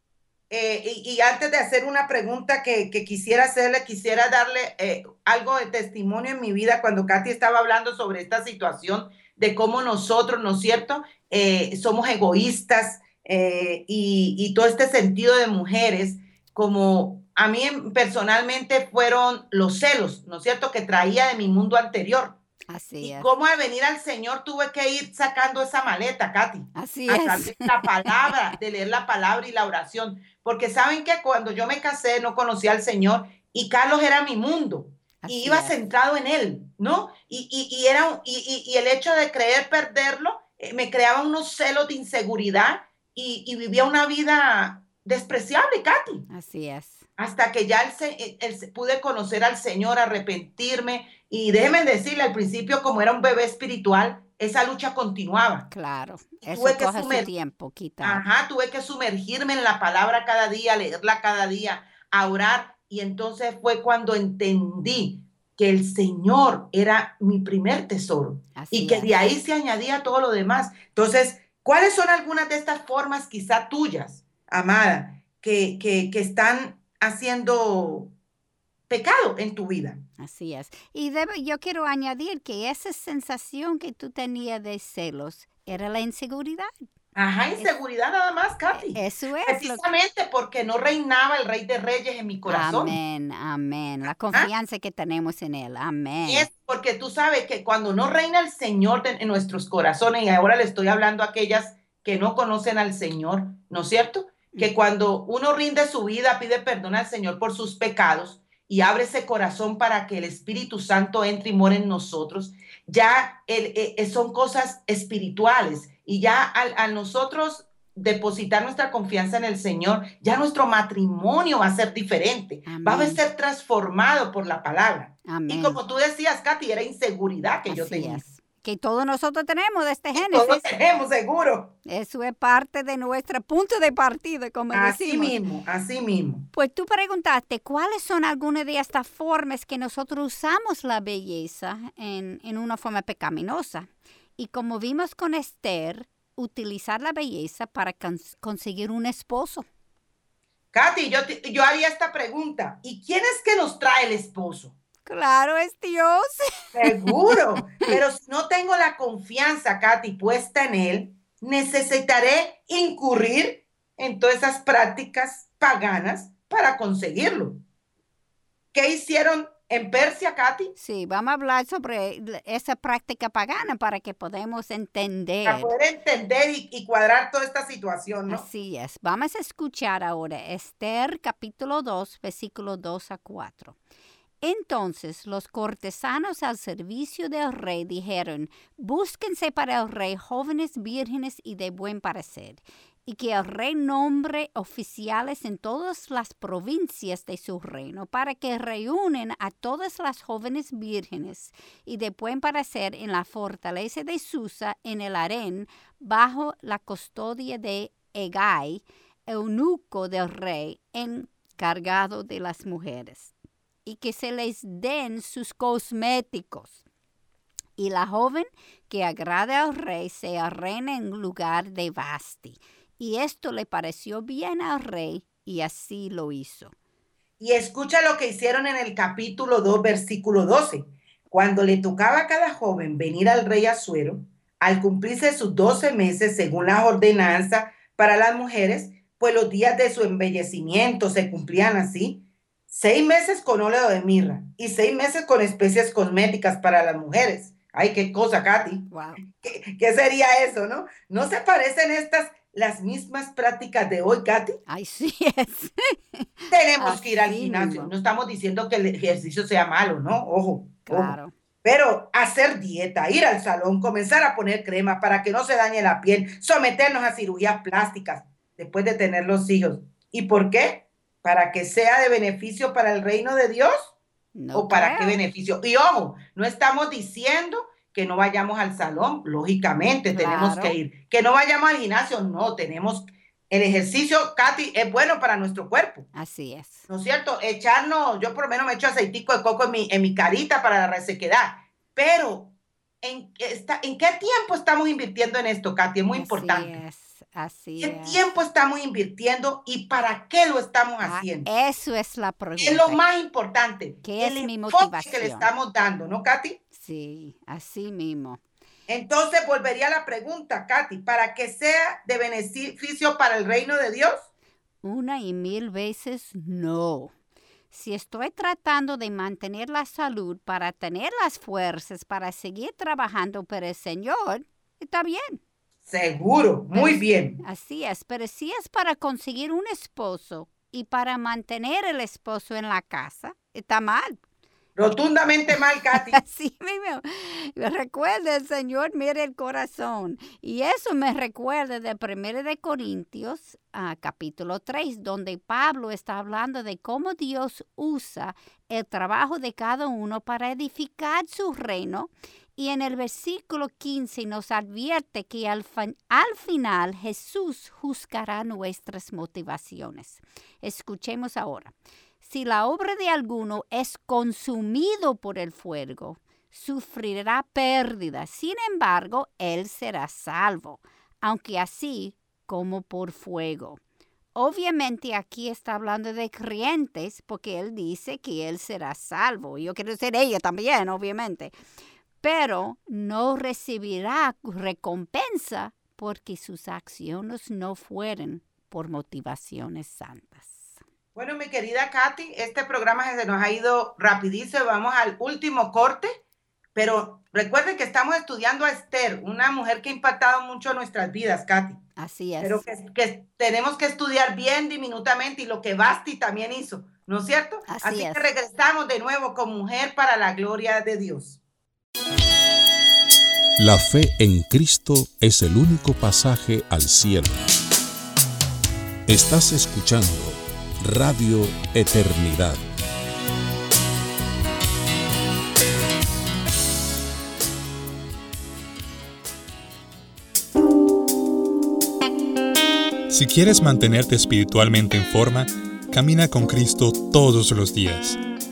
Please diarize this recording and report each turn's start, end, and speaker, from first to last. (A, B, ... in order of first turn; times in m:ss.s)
0:00.5-0:22.4 A
0:22.7-0:23.3 B
0:23.0-0:46.2 A
0:26.7-0:28.3 B
0:35.2-0:35.7 B
0:46.3-0:47.0 B
0:47.2-0:55.7 A
0:55.7-0:58.2 B
0:56.4-0:57.3 A
0:58.0-1:18.1 A
1:08.6-1:09.1 B
1:18.9-1:20.0 A
1:20.2-1:26.7 B
1:27.1-1:33.0 A
1:28.7-1:29.8 B
1:32.4-1:36.5 B
1:36.2-2:08.2 A
2:02.6-2:03.2 B
2:05.2-2:05.8 B
2:07.6-2:10.6 B
2:10.1-2:11.7 A
2:11.8-2:15.3 B
2:14.7-2:16.5 A
2:16.5-2:29.6 B
2:30.7-2:34.7 A
2:35.0-2:38.0 B
2:36.7-2:47.6 A
2:48.7-2:50.7 A
2:50.8-2:55.7 B
2:55.4-2:58.4 A
2:58.3-3:03.8 B
3:04.4-3:33.3 B
3:33.8-3:36.8 B
3:37.8-3:46.7 B
3:47.4-4:14.6 A
4:08.9-4:09.2 B
4:14.7-4:17.9 B
4:16.5-4:33.9 A
4:20.8-4:21.3 B
4:34.3-4:35.2 B
4:34.5-4:46.1 A
4:40.1-4:40.7 B
4:46.1-4:46.8 B
4:46.9-4:56.8 A
4:56.1-4:58.2 B
4:57.8-5:01.5 A
5:01.0-5:03.0 B
5:02.6-5:06.6 A
5:04.0-5:05.5 B
5:06.7-5:08.4 B
5:08.9-5:14.3 A
5:14.8-5:17.1 B
5:17.7-5:25.4 B
5:25.8-5:27.4 A
5:26.7-5:34.2 B
5:34.8-5:36.2 A
5:35.9-6:13.8 B
6:14.4-6:21.5 B
6:22.2-6:30.8 B
6:31.1-6:36.2 A
6:36.7-6:41.8 A
6:42.0-6:42.6 B
6:42.4-6:51.4 A
6:47.7-6:48.3 B
6:53.6-6:57.5 C
6:59.1-7:02.6 C
7:13.1-7:18.2 D